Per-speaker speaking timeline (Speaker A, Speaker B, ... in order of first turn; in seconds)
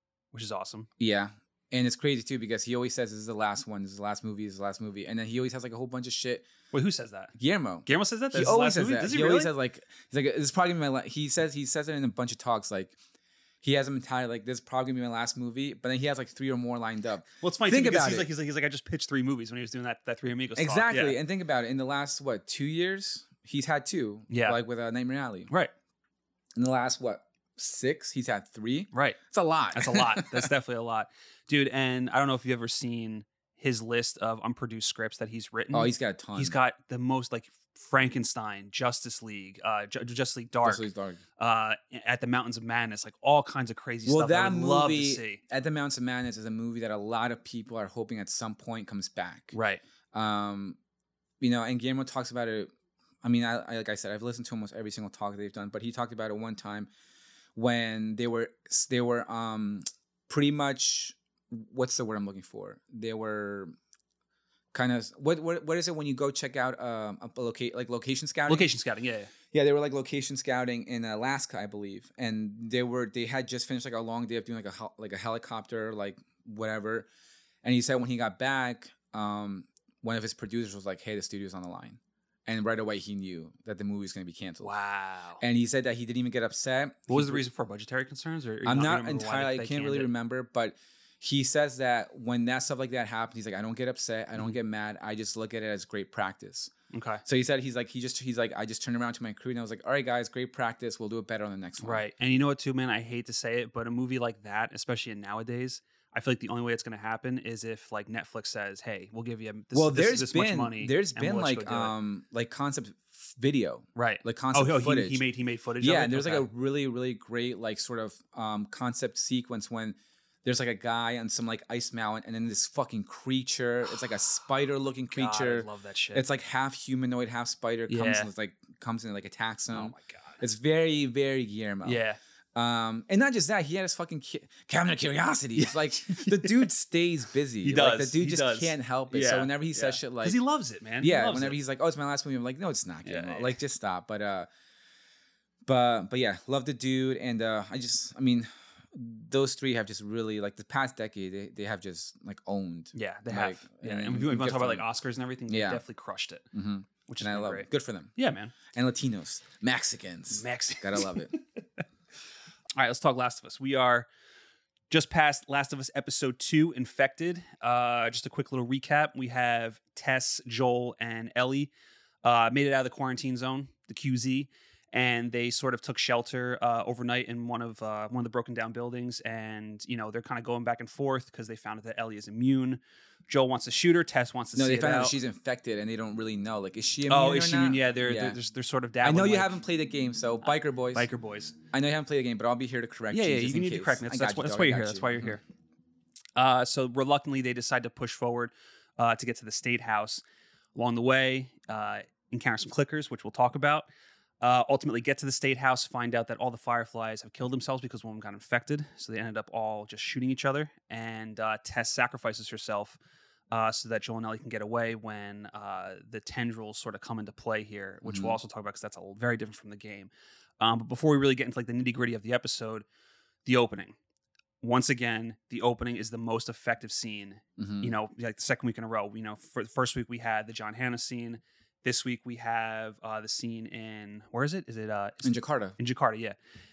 Speaker A: 0.3-0.9, 6.7-7.3, 7.9-9.5, 17.4-21.2, 24.3-24.6, 28.9-29.2, 29.7-40.9, 41.4-45.4, 49.5-49.8, 68.5-69.3, 84.6-85.4, 87.1-90.1, 96.9-97.2, 101.8-111.9, 114.0-116.5, 125.1-126.2, 127.9-128.3, 129.7-130.4, 131.8-132.2, 135.6-136.7, 137.6-141.6, 143.0-143.6, 152.9-156.4, 157.1-158.5, 160.3-161.4, 162.8-164.1, 164.9-171.7, 172.2-185.2, 187.1-189.6, 190.4-191.5, 193.1-195.4, 196.4-200.2, 200.8-203.9, 204.4-213.0, 213.5-222.8, 223.4-223.9, 224.6-236.4
Speaker B: 1.0-6.5, 7.4-12.9, 13.6-18.3, 20.6-25.5, 26.6-30.5, 35.7-36.6, 40.6-41.2, 44.0-49.5, 50.1-50.8, 51.4-52.7, 53.2-56.9, 57.5-63.7, 64.7-68.7, 69.5-77.1, 77.6-84.7, 85.4-87.4, 88.6-96.7, 97.2-102.0, 109.7-115.2, 115.8-132.0, 132.5-140.4, 141.0-144.5, 145.7-154.9, 155.5-155.8, 156.5-158.1, 158.7-161.3, 184.6-188.4, 189.0-191.1, 191.7-195.4, 218.0-218.4, 227.6-227.9, 235.2-235.8